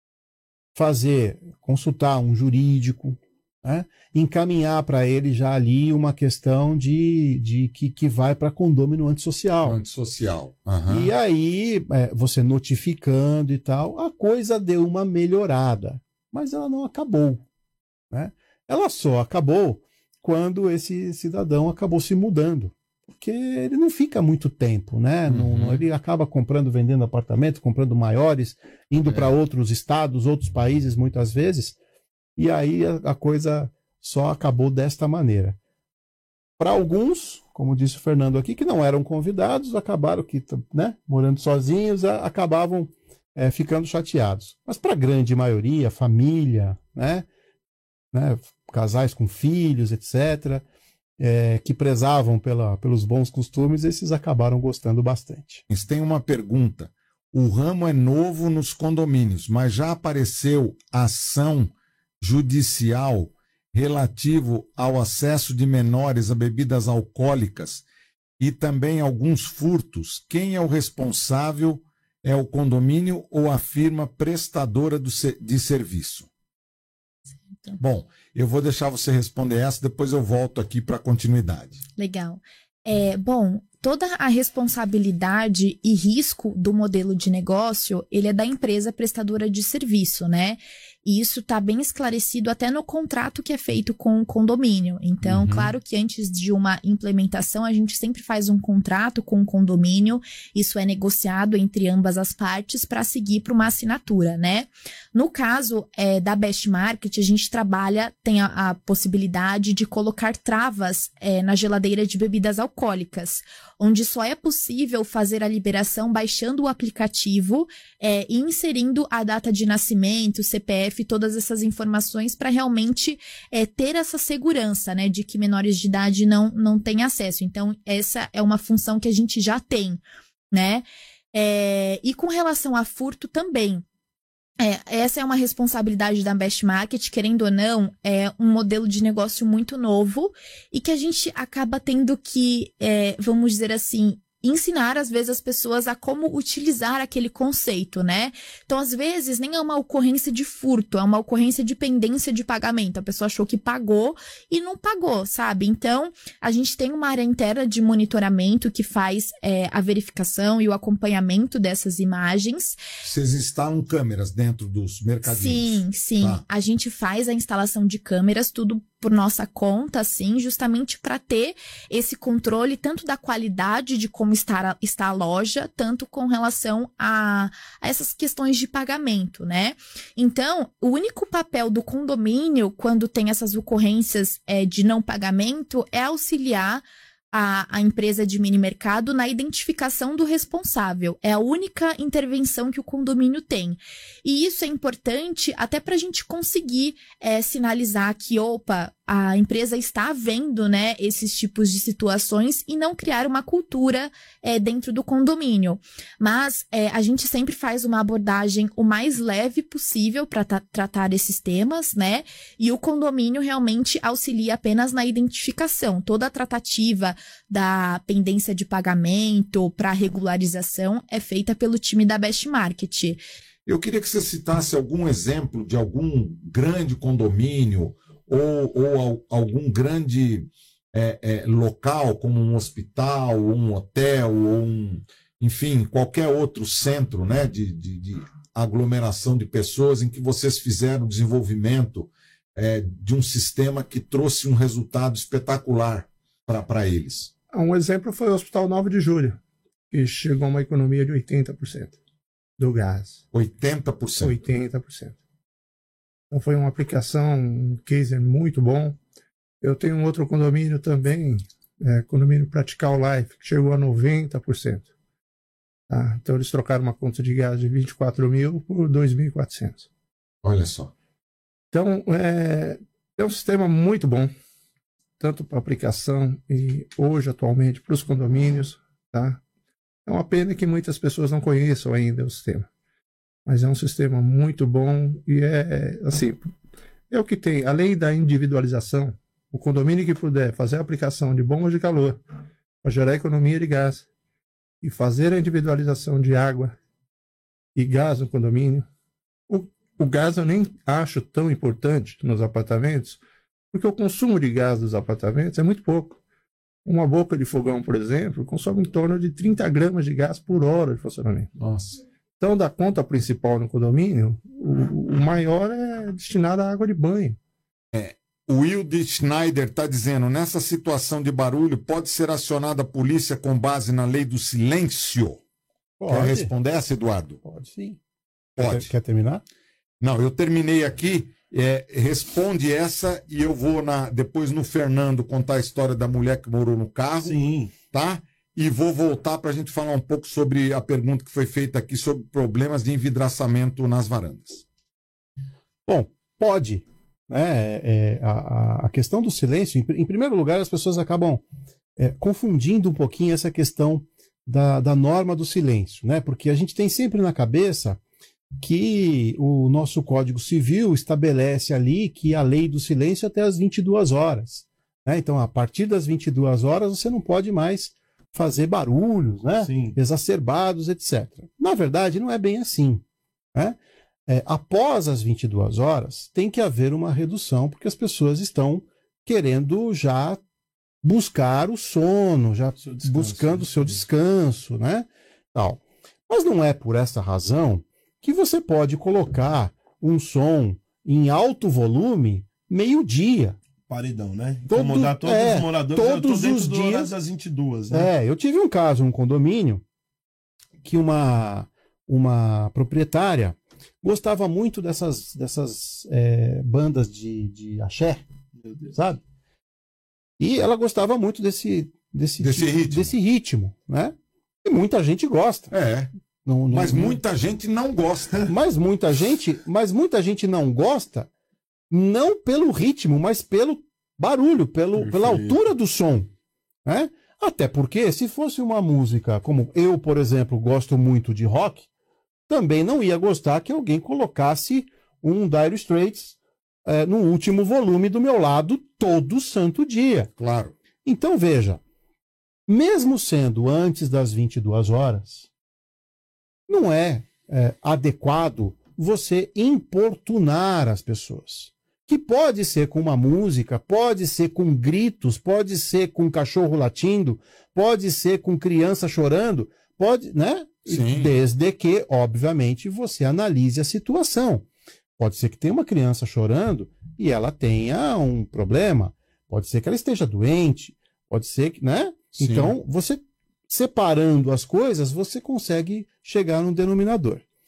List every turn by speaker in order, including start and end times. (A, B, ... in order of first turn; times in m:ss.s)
0:00.7-0:09.8 A
0:09.6-0:11.1 B
0:10.8-0:17.4 A
0:18.1-0:31.8 A
0:25.2-0:25.8 B
0:29.0-0:29.3 B
0:32.4-0:35.6 A
0:36.6-0:47.3 A
0:48.1-0:50.6 A
0:51.2-0:55.6 A
0:55.7-1:07.8 B
1:08.4-1:16.3 B
1:17.5-1:17.8 C
1:17.8-1:21.8 B
1:22.0-2:10.0 C
1:35.2-1:35.7 B
2:10.5-2:13.8 C
2:14.6-2:42.8 C
2:43.0-2:46.4 B
2:45.2-3:43.2 C
3:43.6-4:07.3 B
4:07.5-4:12.0 D
4:12.6-4:13.2 D
4:13.3-4:14.4 B
4:14.2-4:15.2 D
4:16.3-4:19.0 D
4:19.6-4:24.9 D
4:25.9-4:29.9 D
4:30.4-4:30.9 B
4:31.7-4:34.3 D
4:35.2-4:39.4 D
4:40.0-4:42.7 D
4:43.4-4:46.4 D
4:47.1-4:52.2 D
4:52.8-4:54.0 D
4:54.8-4:56.8 D
4:57.7-4:58.9 D
4:59.5-5:03.2 D
5:03.7-5:06.2 D
5:06.8-5:11.5 D
5:11.6-5:12.0 B
5:12.4-5:17.4 D
5:17.9-5:25.4 B
5:26.0-5:26.5 A
5:26.1-5:27.4 B
5:27.4-5:28.0 A
5:28.6-5:28.9 B
5:28.6-5:29.4 A
5:30.0-5:44.6 B
5:37.2-5:37.7 E
5:45.8-5:51.4 A
5:52.0-5:58.0 A
5:58.6-6:13.0 A
6:09.6-6:10.0 E
6:13.5-6:20.4 A
6:21.0-6:33.6 A
6:22.8-6:24.0 E
6:33.9-6:38.1 E
6:34.7-6:37.1 A
6:37.9-6:39.8 A
6:40.8-6:48.2 A
6:48.5-6:49.0 E
6:48.9-6:49.2 A
6:50.4-6:55.7 A
6:52.4-6:53.1 B
6:55.7-6:56.1 B
6:56.4-6:57.2 A
6:56.7-6:58.5 B
6:58.5-7:01.3 A
7:01.9-7:06.3 A
7:05.0-7:05.6 E
7:06.8-7:11.9 A
7:12.5-7:20.3 A
7:20.4-7:20.7 B
7:21.0-7:21.8 A
7:22.7-7:25.4 A
7:26.7-7:44.6 A
7:40.9-7:41.3 B
7:45.2-7:57.4 A
7:52.4-7:52.7 B